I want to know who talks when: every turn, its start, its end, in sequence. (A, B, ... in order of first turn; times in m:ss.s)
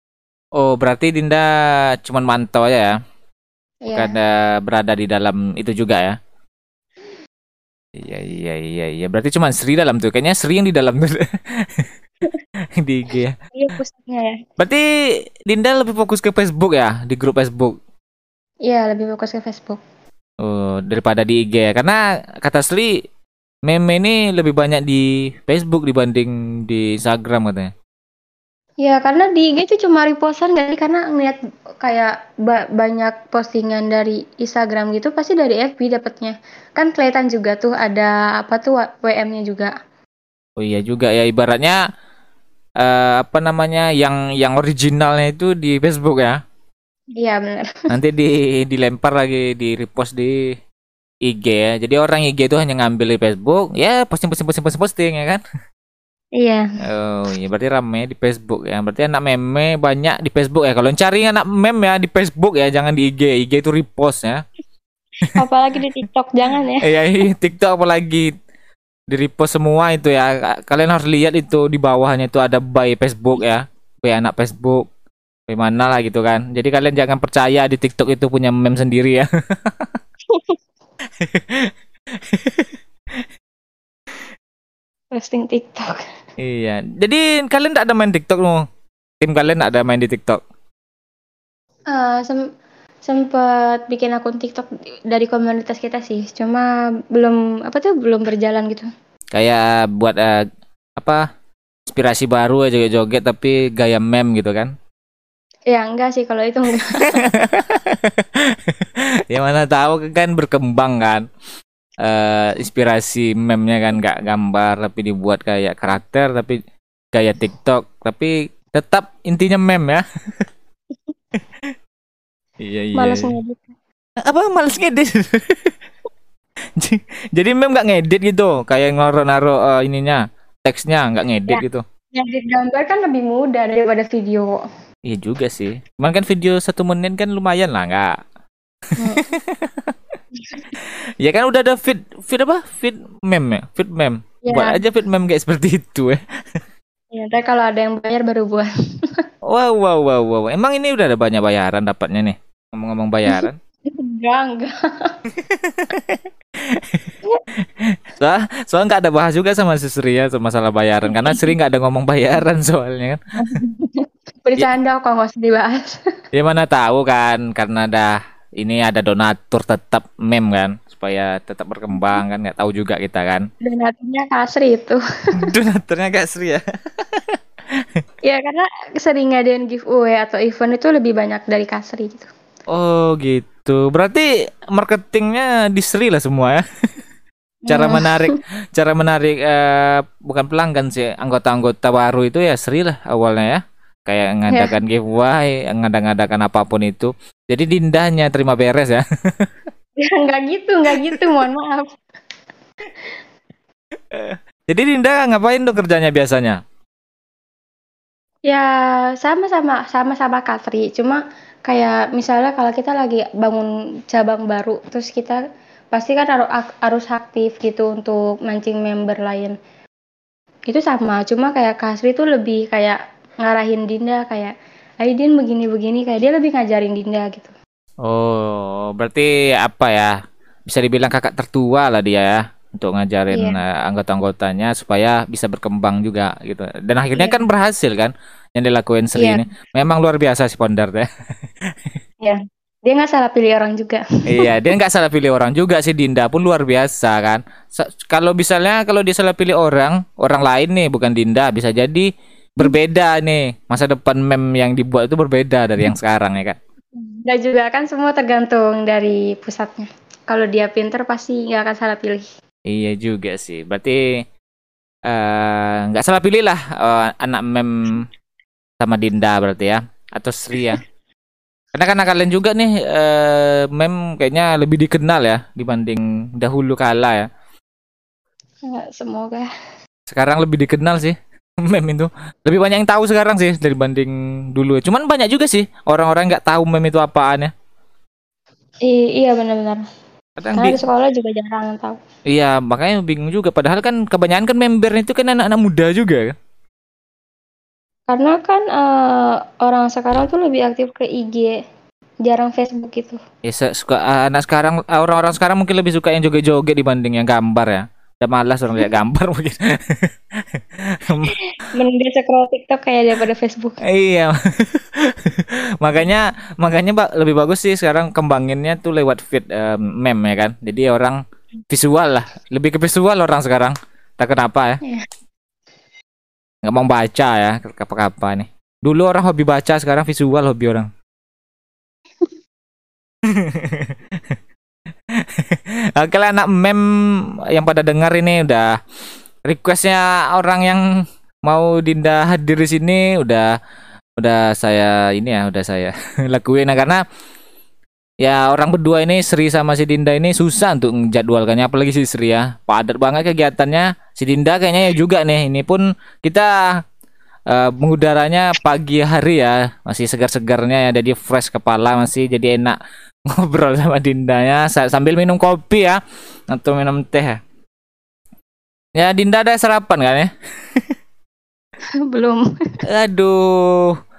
0:00.6-0:03.0 A
0:03.8-0:04.2 B
0:04.0-0:06.2 A
0:08.0-0:11.9 A
0:12.8-0:13.4 A
0:13.6-0:14.4 B
0:14.6-0:14.9 A
0:15.4-0:17.8 A
0:18.7-0:19.8 B
0:20.4-0:23.0 A
0:23.6-0:27.7 A
0:28.8-0:39.7 B
0:40.6-0:41.8 A
0:42.8-0:46.4 A
0:47.2-0:47.9 B
0:47.9-0:50.6 A
0:51.2-0:55.4 A
0:56.4-0:56.7 B
0:56.8-1:04.4 A
1:05.3-1:06.9 B
1:06.8-1:08.3 A
1:09.1-1:14.9 A
1:15.5-1:19.9 A
1:20.3-1:20.6 B
1:21.2-1:23.2 A
1:25.1-1:26.0 B
1:26.4-1:28.6 A
1:29.2-1:30.4 A
1:31.9-1:32.5 B
1:33.0-1:38.9 B
1:39.3-1:40.4 A
1:41.0-1:41.2 A
1:41.9-1:44.7 A
1:45.7-1:47.3 B
1:47.0-1:51.2 A
1:52.0-1:56.6 A
1:57.1-2:00.4 A
2:02.6-2:03.3 A
2:03.0-2:03.7 B
2:04.2-2:05.8 A
2:06.8-2:11.8 A
2:12.2-2:14.6 B
2:15.1-2:18.2 A
2:18.9-2:19.9 A
2:19.0-2:19.3 B
2:20.9-2:26.2 A
2:24.5-2:24.8 B
2:27.1-2:28.7 B
2:29.5-2:33.6 A
2:33.3-2:35.2 B
2:35.3-2:43.2 A
2:41.1-2:41.5 B
2:43.4-2:46.0 B
2:46.3-2:53.5 A
2:51.9-2:52.2 B
2:53.6-2:55.5 B
2:55.4-2:58.0 A
2:58.2-3:02.3 B
3:02.7-3:06.6 A
3:07.7-3:08.4 B
3:07.7-3:19.5 A
3:14.5-3:14.7 B
3:20.0-3:21.9 B
3:24.1-3:26.6 A
3:28.5-3:35.4 B
3:35.9-3:39.6 B
3:40.7-3:44.5 B
3:45.0-3:47.5 B
3:48.0-3:50.1 A
3:50.7-4:01.1 A
3:53.3-3:53.6 B
3:57.2-3:57.4 B
3:59.2-3:59.4 B
4:01.6-4:01.9 A
4:02.2-4:04.6 B
4:04.3-4:16.6 A
4:17.0-4:22.3 B
4:22.7-4:24.0 A
4:25.1-4:28.1 A
4:28.8-4:30.8 A
4:31.7-4:37.3 A
4:38.6-4:39.5 B
4:40.1-4:47.5 A
4:48.8-4:49.8 B
4:50.4-4:50.8 A
4:50.6-4:52.0 B
4:52.3-4:56.4 A
4:58.1-5:01.6 B
5:02.2-5:03.2 B
5:03.4-5:11.4 A
5:11.3-5:13.8 B
5:13.8-5:24.8 A
5:26.6-5:30.9 A
5:33.2-5:34.4 A
5:35.1-5:38.8 A
5:39.5-5:40.8 A
5:41.4-5:43.6 A
5:44.2-5:47.0 A
5:48.2-5:56.8 A
5:57.5-6:07.4 A
6:09.0-6:10.9 A
6:12.1-6:12.7 B
6:12.9-6:14.0 A